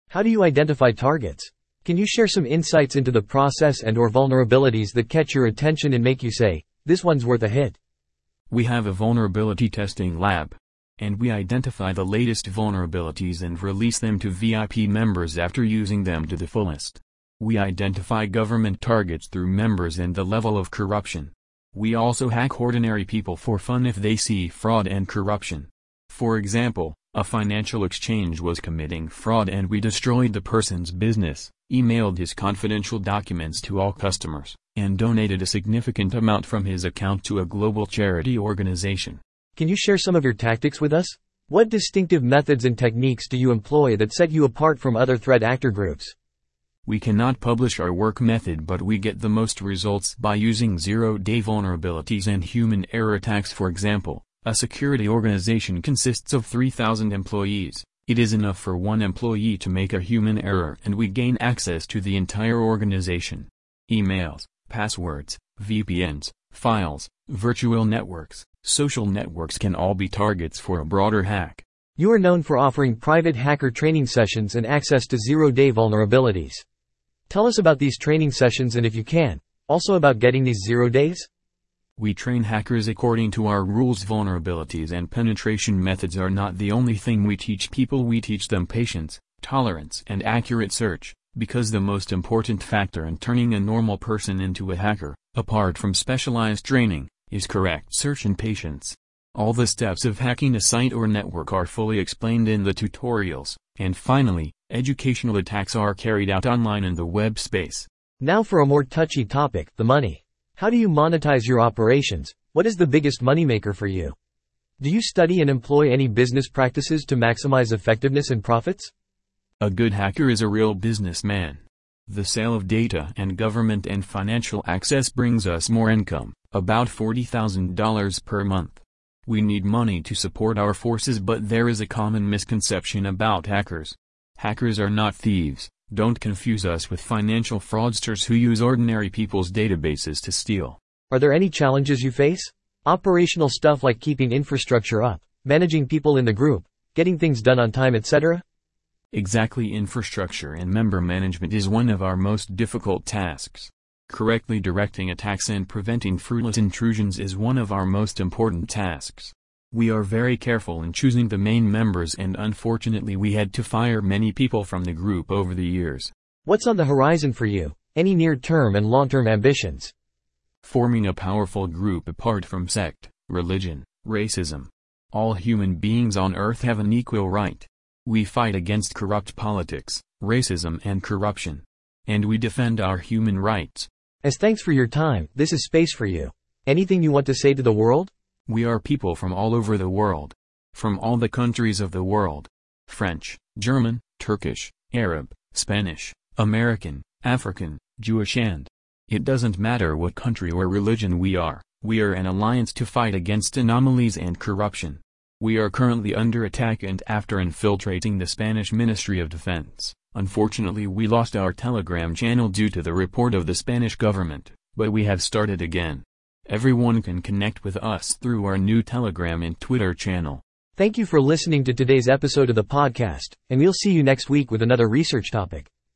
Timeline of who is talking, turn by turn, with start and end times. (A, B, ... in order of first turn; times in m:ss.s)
0:00.1-0:07.8 A
0:08.5-0:39.2 B
0:39.6-0:46.1 A
0:46.8-1:11.6 B
1:12.0-1:16.6 A
1:17.3-1:21.3 A
1:22.0-1:47.9 B
1:48.2-1:54.1 A
1:54.8-1:58.9 A
1:59.6-2:20.8 B
2:21.1-2:28.4 A
2:29.1-2:46.1 B
2:46.4-2:49.9 A
2:50.6-3:03.9 B
3:04.2-3:08.1 A
3:08.5-3:40.4 B
3:40.8-3:45.7 A